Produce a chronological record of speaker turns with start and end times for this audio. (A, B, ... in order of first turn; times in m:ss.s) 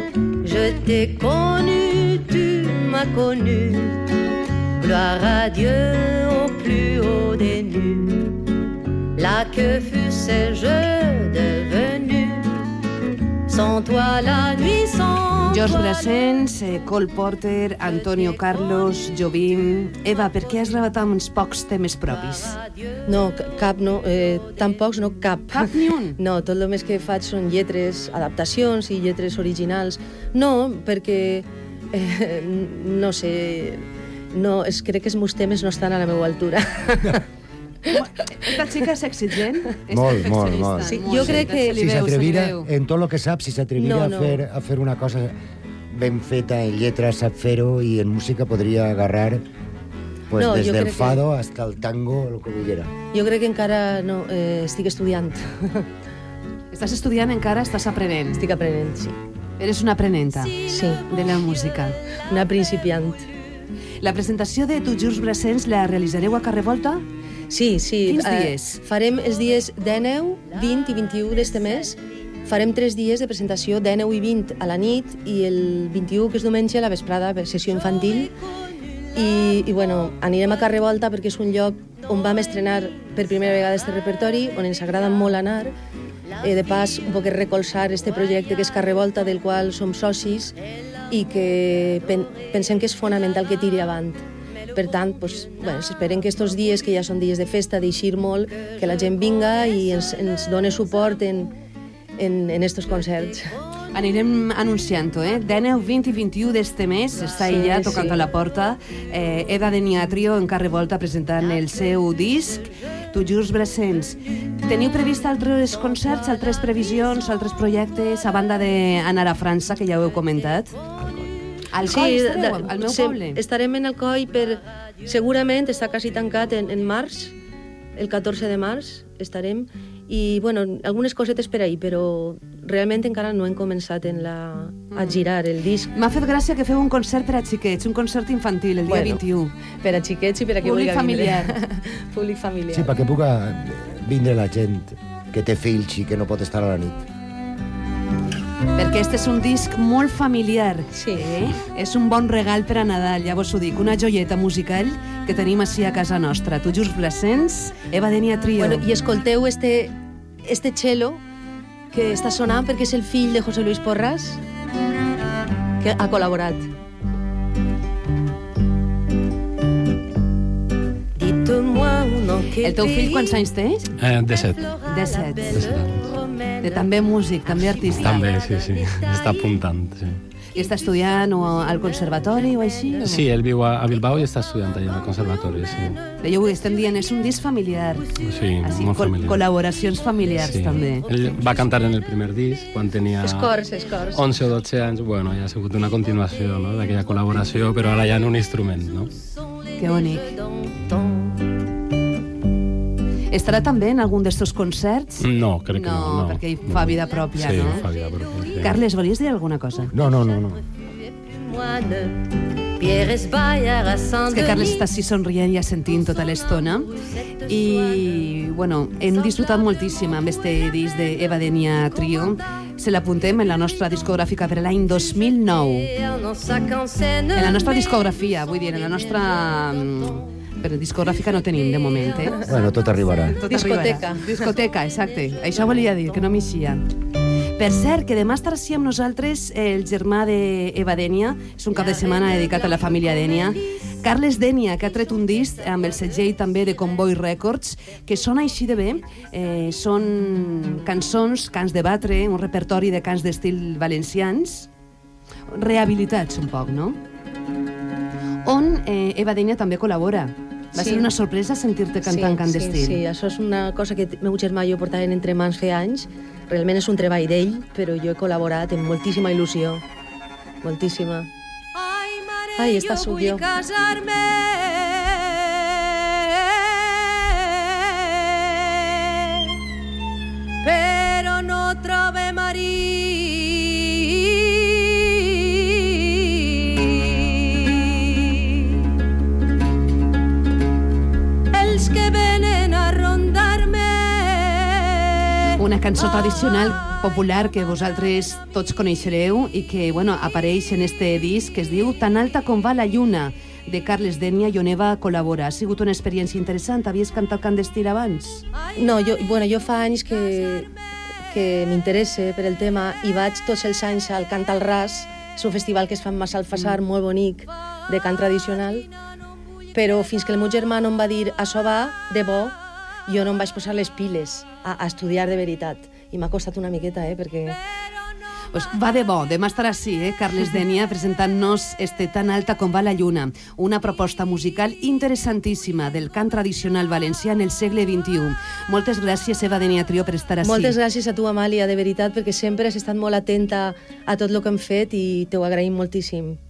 0:00.4-0:04.1 A
0:04.8-0:08.4 A
0:09.2-0:12.6 A
0:13.5-0:16.0 A
0:15.5-0:22.6 B
0:23.1-0:37.2 C
0:25.5-0:26.2 B
0:37.9-0:42.7 B
0:39.9-0:45.4 D
0:40.8-0:41.9 C
0:43.8-0:44.4 C
0:45.9-0:49.4 D
0:50.3-0:52.9 D
0:50.3-0:51.2 C
0:53.1-0:55.9 C
0:56.7-0:58.4 B
0:58.3-0:59.2 C
0:59.6-1:02.0 B
1:00.7-1:01.0 C
1:02.3-1:03.2 C
1:04.0-1:07.0 B
1:07.5-1:18.3 C
1:08.0-1:08.8 B
1:19.1-1:25.7 C
1:26.4-1:30.6 C
1:31.1-1:34.2 C
1:34.7-1:41.5 C
1:42.2-1:43.5 C
1:43.9-2:00.7 B
1:47.4-1:48.2 C
2:01.0-2:01.3 D
2:01.7-2:03.4 B
2:01.8-2:07.3 C
2:08.0-2:15.9 C
2:14.9-2:15.2 B
2:15.9-2:19.5 B
2:18.8-2:19.2 C
2:19.8-2:22.9 C
2:20.6-2:21.5 B
2:22.7-2:27.0 D
2:28.8-2:38.8 B
2:30.9-2:31.3 C
2:38.6-2:39.9 C
2:40.4-2:41.2 C
2:41.9-2:44.4 C
2:45.8-2:46.7 C
2:51.2-2:53.4 A
2:52.6-2:53.9 B
2:54.0-2:54.6 E
2:54.9-2:55.6 B
2:55.0-2:56.8 A
2:55.5-2:56.1 E
2:56.6-2:58.2 B
2:57.9-3:00.2 E
3:00.5-3:03.2 B
3:03.0-3:06.0 E
3:06.2-3:08.1 B
3:08.2-3:09.4 E
3:08.6-3:11.1 B
3:10.4-3:13.5 E
3:13.2-3:14.2 C
3:14.1-3:19.1 E
3:19.8-3:20.3 B
3:19.8-3:21.4 A
3:23.3-3:27.8 B
3:25.2-3:28.7 E
3:28.6-3:29.9 B
3:29.9-3:30.6 D
3:31.2-3:34.9 A
3:34.3-3:36.9 B
3:36.8-3:38.0 A
3:37.5-3:45.9 B
3:45.9-3:47.8 A
3:47.3-3:52.4 B
3:48.9-3:49.5 A
3:52.4-3:53.4 D
3:53.3-3:56.8 B
3:53.4-3:54.5 C
3:57.6-4:14.7 B
4:15.5-4:17.0 B
4:18.4-4:23.0 B
4:20.8-4:21.1 C
4:22.0-4:29.8 C
4:30.6-4:31.3 C
4:31.8-4:36.7 A
4:32.6-4:33.4 C
4:37.3-4:39.4 A
4:40.6-4:47.7 A
4:51.5-4:55.0 A
4:55.6-5:08.4 B
5:08.8-5:10.7 C
5:11.3-5:18.9 C
5:19.7-5:27.6 C
5:28.5-5:40.8 B
5:40.4-5:46.4 C